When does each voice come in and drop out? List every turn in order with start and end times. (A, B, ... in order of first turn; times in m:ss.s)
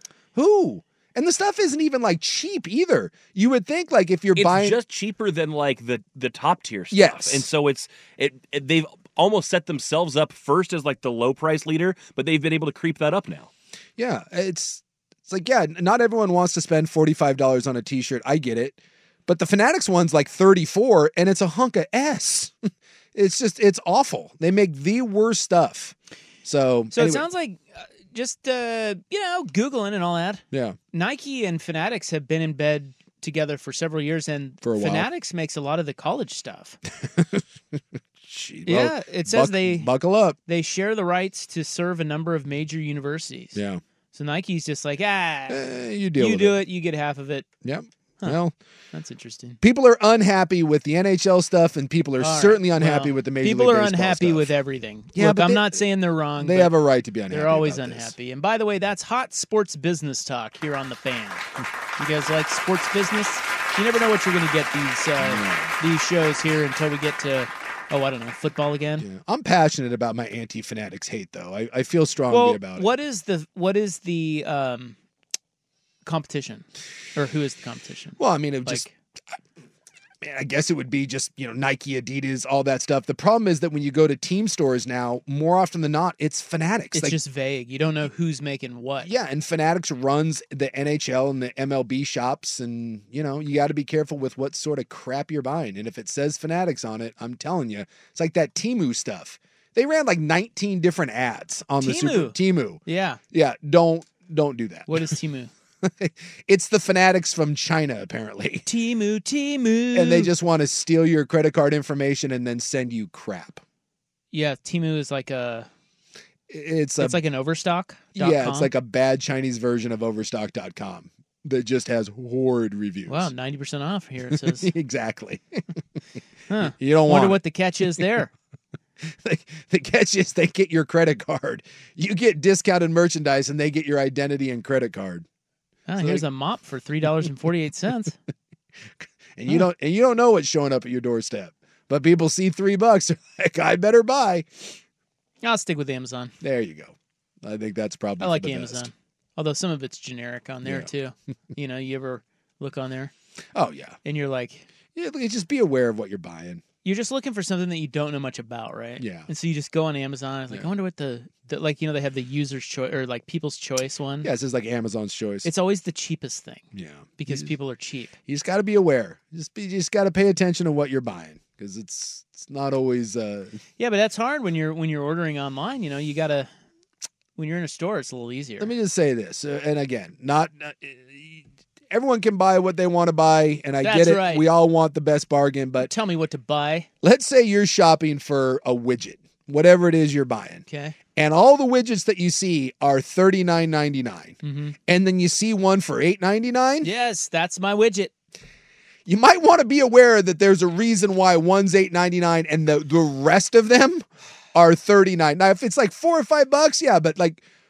0:00.4-0:04.8 A
0:04.4-0:13.5 B
0:06.9-0:07.5 A
0:14.0-0:22.5 A
0:23.1-0:27.2 A
0:26.9-0:36.8 C
0:30.5-0:30.8 A
0:34.6-0:35.1 A
0:37.0-0:37.4 A
0:38.2-0:40.4 A
0:38.7-0:39.9 C
0:40.5-0:43.6 C
0:43.5-0:43.8 A
0:44.1-0:45.6 C
0:45.5-0:46.6 A
0:46.2-0:47.5 C
0:47.6-0:48.5 A
0:48.9-0:49.6 C
0:49.6-0:54.5 A
0:52.2-0:56.7 C
0:55.1-0:55.8 A
0:56.4-0:58.1 A
0:57.3-1:01.5 C
1:02.0-1:09.1 C
1:05.2-1:05.8 A
1:09.0-1:12.9 A
1:12.3-1:15.0 C
1:16.0-1:18.9 C
1:18.2-1:18.9 A
1:20.2-1:27.2 A
1:26.9-1:29.1 C
1:29.0-1:45.1 A
1:41.8-1:43.2 C
1:44.9-1:45.5 C
1:45.8-1:48.6 A
1:48.7-1:50.3 C
1:49.9-1:53.6 A
1:54.3-1:55.7 C
1:56.5-1:57.2 A
1:57.0-1:58.7 C
1:58.2-2:03.3 A
2:03.1-2:04.7 C
2:04.3-2:05.6 A
2:06.5-2:08.3 C
2:06.6-2:07.4 A
2:09.0-2:15.2 A
2:15.9-2:18.2 C
2:16.0-2:16.2 A
2:19.0-2:24.7 A
2:25.4-2:26.3 C
2:26.4-2:28.9 A
2:28.2-2:33.1 C
2:30.6-2:30.9 A
2:33.6-2:34.0 A
2:34.0-2:34.7 C
2:34.9-2:36.6 A
2:36.8-2:44.3 C
2:39.0-2:39.3 A
2:44.2-2:45.5 A
2:45.4-2:46.7 C
2:46.7-2:47.5 A
2:47.2-2:48.2 C
2:48.3-2:53.6 A
2:53.8-2:56.5 C
2:57.4-2:58.7 C
2:58.6-3:05.9 A
3:03.8-3:04.5 C
3:05.8-3:06.9 C
3:07.0-3:16.9 A
3:10.7-3:11.0 C
3:14.4-3:14.8 C
3:16.8-3:18.1 C
3:19.1-3:27.4 A